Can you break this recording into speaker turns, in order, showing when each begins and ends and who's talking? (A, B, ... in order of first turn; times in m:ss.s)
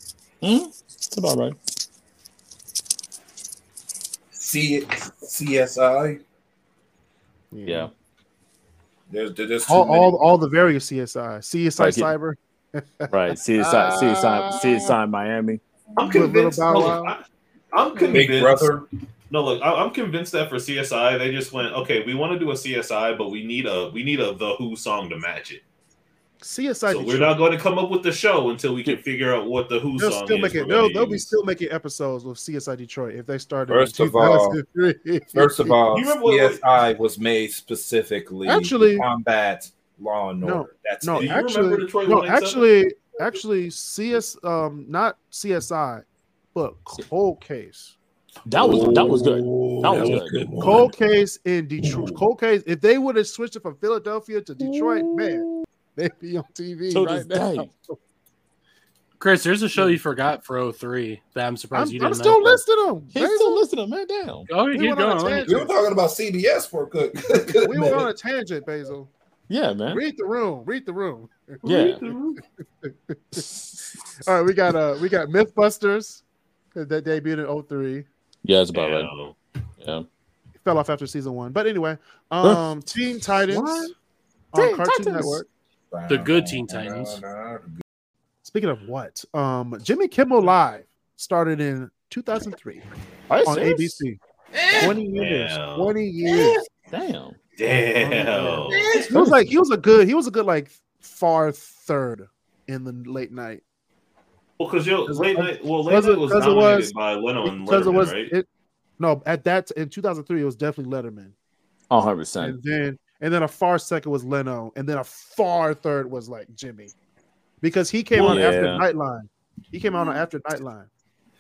0:00.4-0:01.6 A
0:04.3-0:06.2 B
0:07.5-0:07.9 C
0:09.1-0:10.1 B
0:09.7-0:14.9 C
0:11.8-0:12.1 A
0:13.1-0:15.6 A
0:16.0-0:25.6 D
0:16.1-0:17.2 C
0:18.0-0:18.2 C
0:18.1-0:18.9 B
0:26.4-0:27.4 C
0:26.9-0:31.3 D
0:30.0-0:35.8 C
0:33.7-0:34.6 B
0:35.3-0:41.4 B
0:35.9-0:36.6 D
0:38.4-0:39.1 C
0:40.4-0:48.0 C
0:41.2-0:42.7 D
0:48.5-0:50.5 A
0:48.6-0:50.9 B
0:50.6-0:58.0 C
0:51.9-0:52.2 D
0:54.6-0:55.6 A
0:56.9-0:57.7 A
0:59.2-1:02.6 E
1:01.7-1:03.7 C
1:03.1-1:04.5 A
1:04.5-1:05.6 E
1:04.7-1:05.7 C
1:05.4-1:08.1 B
1:07.6-1:09.1 C
1:09.5-1:10.0 A
1:09.9-1:11.6 C
1:11.6-1:12.4 D
1:11.6-1:12.1 A
1:12.8-1:13.5 C
1:14.2-1:16.2 C
1:16.8-1:18.1 C
1:18.4-1:19.1 A
1:18.7-1:19.4 D
1:19.8-1:20.1 A
1:20.6-1:23.9 C
1:23.5-1:23.9 B
1:24.5-1:25.5 C
1:24.5-1:25.4 A
1:25.9-1:27.8 B
1:26.1-1:27.2 E
1:28.4-1:32.8 C
1:33.3-1:34.0 A
1:33.4-1:34.2 C
1:34.5-1:35.0 B
1:34.7-1:36.6 C
1:35.1-1:36.0 D
1:36.9-1:37.4 A
1:37.6-1:39.0 D
1:38.0-1:43.6 C
1:38.7-1:39.2 B
1:44.6-1:48.3 D
1:45.1-1:48.5 C
1:49.0-1:51.3 C
1:51.9-1:52.6 A
1:52.4-1:56.9 C
1:57.6-2:00.9 C
1:58.2-1:58.5 D
1:58.2-1:58.8 A